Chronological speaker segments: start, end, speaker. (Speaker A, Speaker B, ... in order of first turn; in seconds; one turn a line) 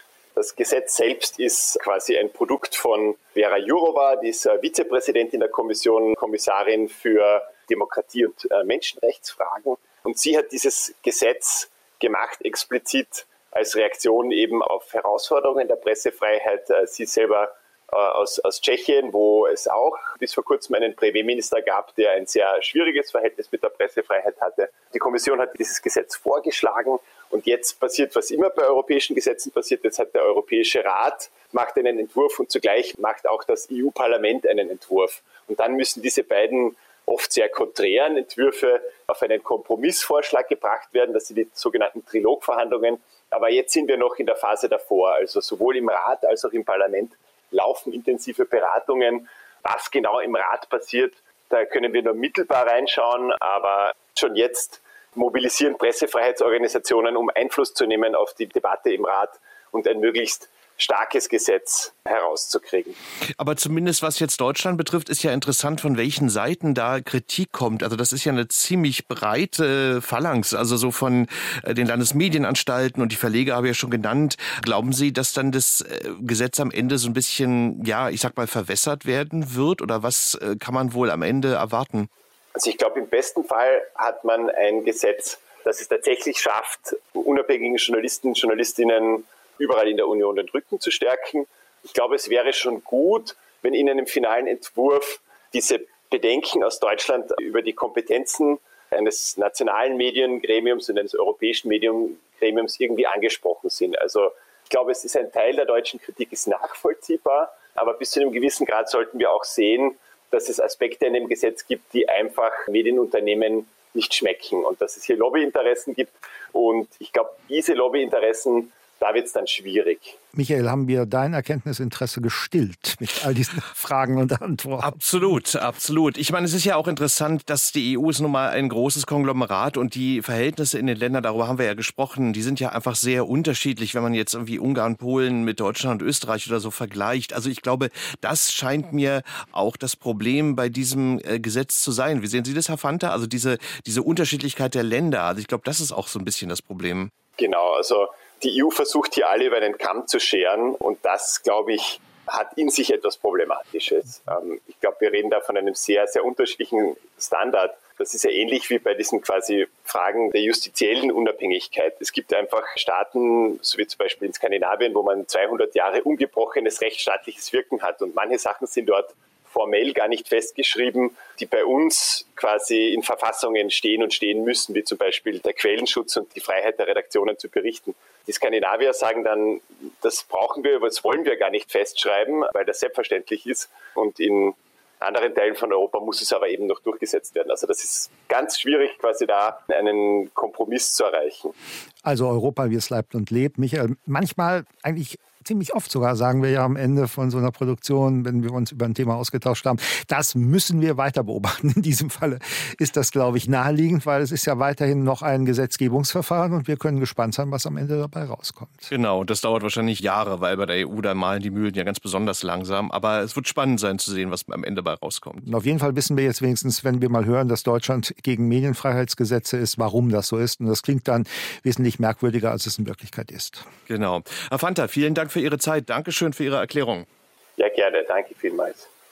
Speaker A: 0.3-63.0
Speaker B: 63.4-82.1
Speaker A: 82.5-120.2
Speaker C: 120.3-125.0
Speaker B: 124.8-147.1
Speaker A: 147.4-191.5
Speaker C: 192.0-208.9
Speaker B: 208.9-215.4
Speaker C: 215.4-223.6
Speaker B: 223.9-227.1
Speaker A: 227.6-228.9